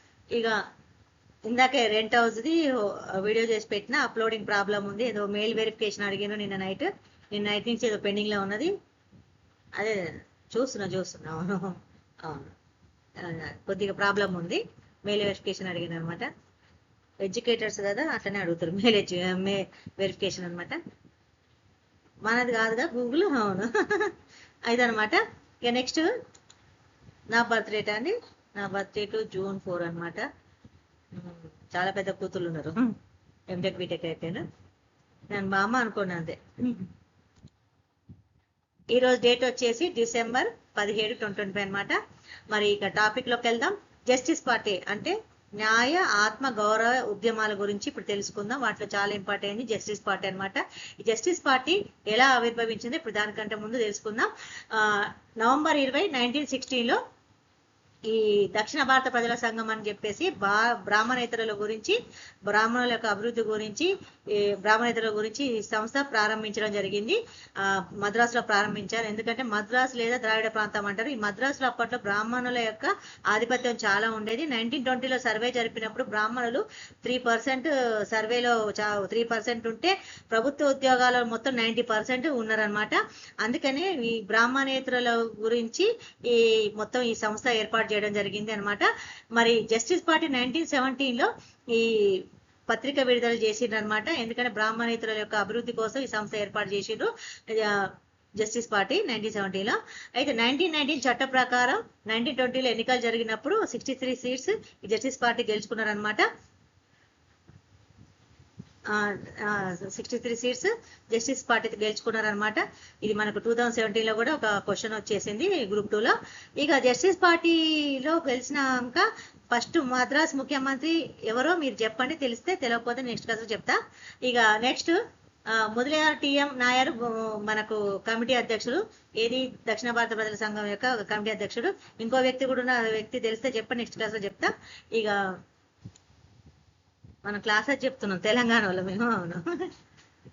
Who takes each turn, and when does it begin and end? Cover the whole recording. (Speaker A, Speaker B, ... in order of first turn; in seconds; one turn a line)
Speaker A: 0.3-0.6
Speaker A: 1.5-8.7
Speaker A: 9.8-12.5
Speaker A: 13.2-16.3
Speaker A: 17.2-20.8
Speaker A: 22.3-24.1
Speaker A: 24.7-26.1
Speaker A: 27.3-30.3
Speaker A: 31.1-33.0
Speaker A: 33.5-34.5
Speaker A: 35.3-36.9
Speaker A: 38.9-42.0
Speaker A: 42.5-57.0
Speaker A: 58.1-106.3
Speaker A: 108.9-125.0
Speaker A: 125.5-135.2
Speaker A: 137.2-139.7